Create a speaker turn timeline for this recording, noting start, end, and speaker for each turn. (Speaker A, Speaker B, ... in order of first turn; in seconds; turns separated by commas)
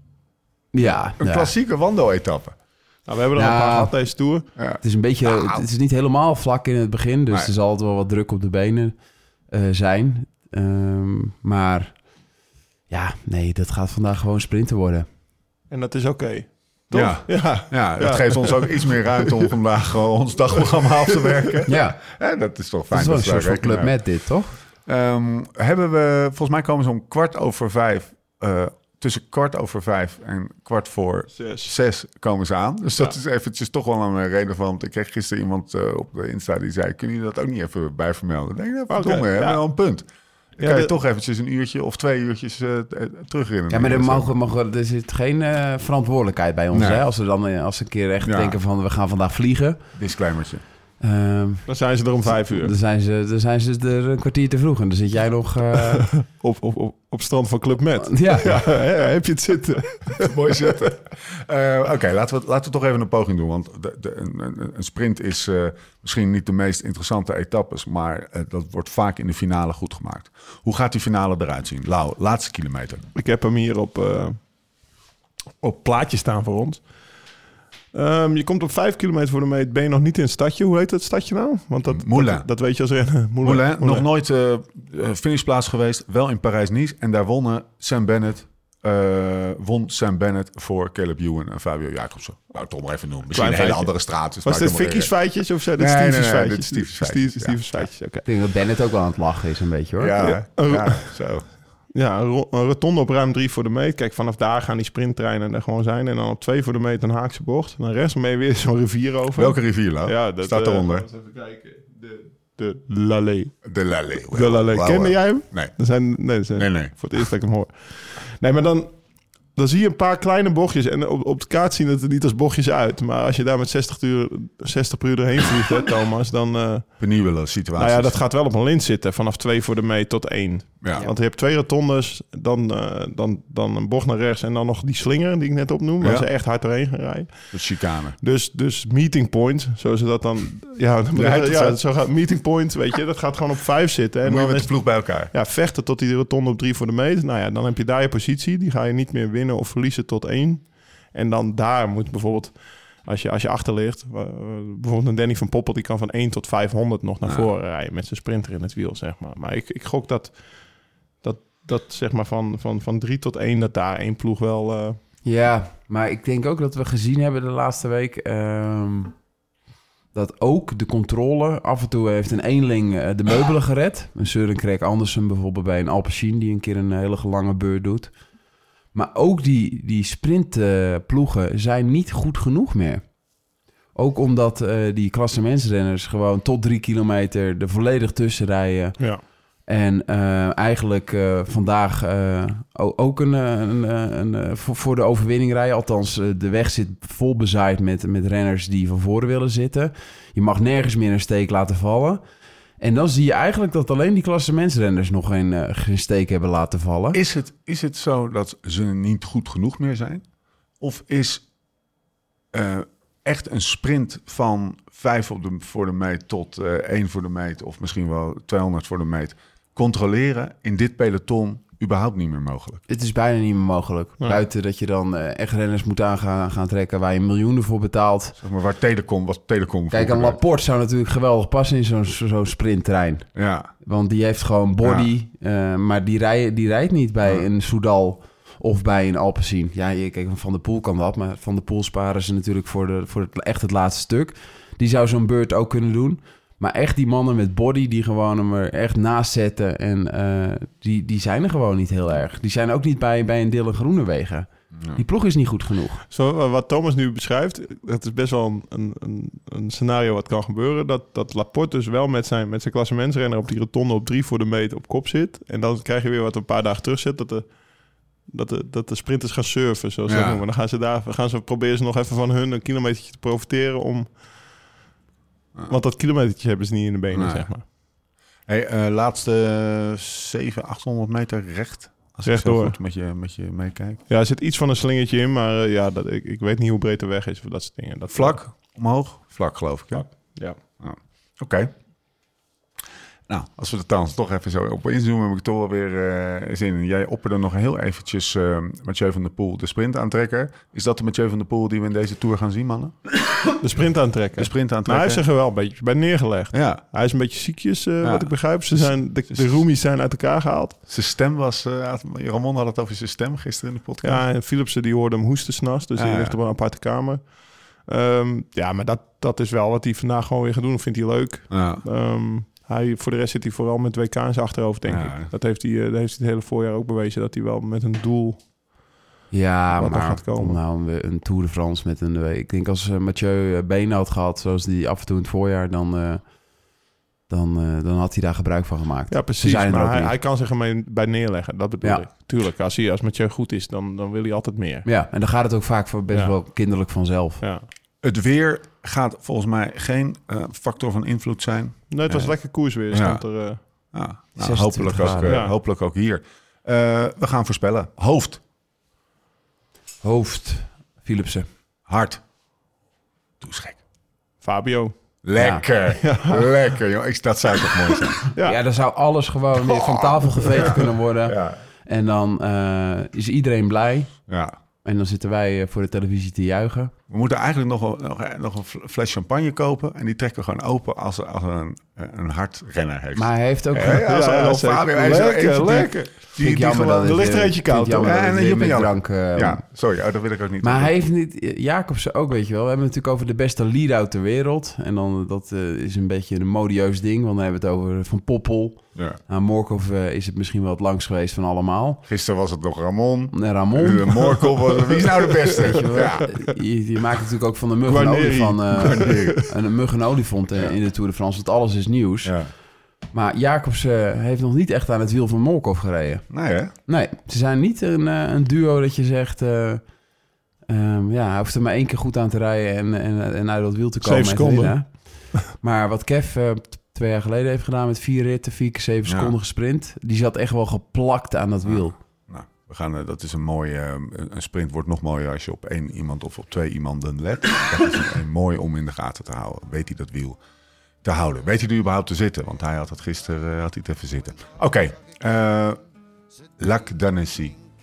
Speaker A: 0.7-1.5, Speaker B: 1.2-2.5, Speaker C: 3.0-4.5, Speaker A: 3.3-4.0, Speaker B: 4.6-5.6, Speaker A: 4.8-8.9, Speaker A: 9.5-11.9, Speaker A: 12.9-15.1, Speaker C: 15.7-19.5, Speaker B: 16.9-23.9, Speaker C: 21.1-21.6, Speaker A: 21.7-22.0, Speaker A: 22.9-24.6, Speaker B: 24.9-40.0, Speaker C: 31.3-31.7, Speaker C: 38.9-39.6, Speaker B: 40.6-44.4, Speaker C: 40.6-40.9, Speaker A: 43.7-49.8, Speaker B: 46.7-47.0, Speaker B: 48.2-48.6, Speaker B: 49.9-50.6, Speaker A: 51.0-51.7, Speaker C: 51.6-52.7, Speaker A: 52.3-56.1, Speaker C: 56.3-60.8, Speaker A: 58.0-58.6, Speaker B: 60.2-73.0, Speaker C: 73.1-74.4, Speaker C: 75.6-76.8, Speaker C: 77.9-84.0, Speaker B: 81.9-82.5, Speaker B: 83.4-95.1, Speaker C: 93.3-98.2, Speaker B: 95.8-97.8, Speaker A: 98.2-100.2, Speaker B: 100.0-101.4, Speaker C: 100.2-101.1, Speaker C: 101.9-113.6, Speaker B: 109.3-111.0, Speaker B: 113.6-115.8, Speaker C: 114.3-119.0, Speaker B: 116.5-117.0, Speaker C: 119.5-127.0, Speaker B: 127.0-128.2, Speaker C: 127.8-137.6, Speaker B: 130.8-131.1, Speaker B: 136.0-136.3, Speaker B: 137.5-138.2, Speaker C: 138.2-160.3, Speaker B: 141.1-141.8, Speaker B: 144.2-145.3, Speaker C: 161.2-165.0, Speaker A: 165.2-169.1, Speaker A: 170.1-178.1, Speaker A: 178.9-183.0, Speaker A: 183.9-189.0, Speaker A: 189.7-202.2, Speaker A: 202.8-207.2, Speaker B: 207.1-210.2, Speaker B: 210.8-211.4, Speaker B: 212.5-222.8, Speaker A: 222.9-228.4, Speaker B: 228.4-230.4, Speaker A: 229.9-233.3, Speaker B: 233.3-233.7, Speaker A: 233.8-256.0, Speaker B: 234.8-235.1, Speaker B: 254.7-255.0, Speaker C: 256.1-267.5, Speaker C: 268.3-274.1, Speaker B: 270.1-270.4, Speaker C: 275.7-277.6, Speaker B: 277.1-277.5, Speaker B: 278.5-284.0, Speaker C: 282.2-282.8, Speaker C: 284.1-288.4, Speaker B: 288.1-290.1, Speaker C: 289.9-290.6, Speaker B: 290.8-291.7, Speaker B: 293.3-302.9, Speaker C: 303.6-310.8, Speaker B: 304.4-305.2, Speaker B: 306.5-306.8, Speaker B: 308.0-309.6, Speaker B: 310.9-314.2, Speaker C: 314.0-328.4, Speaker B: 315.9-316.4, Speaker B: 321.5-321.8, Speaker B: 324.9-325.3, Speaker A: 329.3-336.2, Speaker C: 329.7-330.6, Speaker A: 337.3-340.1, Speaker C: 339.1-344.9, Speaker A: 341.8-342.1, Speaker A: 344.8-347.4, Speaker C: 346.1-346.4, Speaker C: 347.4-347.6, Speaker B: 348.0-352.4, Speaker C: 351.9-353.6, Speaker B: 352.9-353.2, Speaker B: 353.9-358.4, Speaker A: 354.4-355.4, Speaker C: 355.2-355.5, Speaker A: 360.0-361.5, Speaker B: 361.9-362.2, Speaker B: 363.4-363.8, Speaker C: 364.4-364.9, Speaker B: 365.2-368.3, Speaker A: 365.4-365.7, Speaker C: 366.0-366.5, Speaker C: 368.3-368.6, Speaker A: 368.4-374.1, Speaker B: 369.6-371.6, Speaker B: 374.3-374.6, Speaker A: 374.8-376.9, Speaker B: 377.1-387.0, Speaker A: 383.1-384.1, Speaker C: 383.9-388.3, Speaker A: 386.4-389.6, Speaker B: 387.9-391.0, Speaker A: 390.6-402.0, Speaker B: 402.1-406.3, Speaker A: 403.3-404.3, Speaker C: 405.0-405.4, Speaker A: 405.6-412.3, Speaker C: 407.9-409.5, Speaker B: 408.8-409.4, Speaker B: 412.2-412.5, Speaker A: 413.1-416.2, Speaker B: 416.3-416.7, Speaker A: 416.9-419.8, Speaker A: 420.7-424.9, Speaker C: 424.0-424.8, Speaker A: 425.4-431.9, Speaker B: 429.0-429.3, Speaker B: 431.6-440.4, Speaker B: 441.0-445.8, Speaker B: 446.6-447.6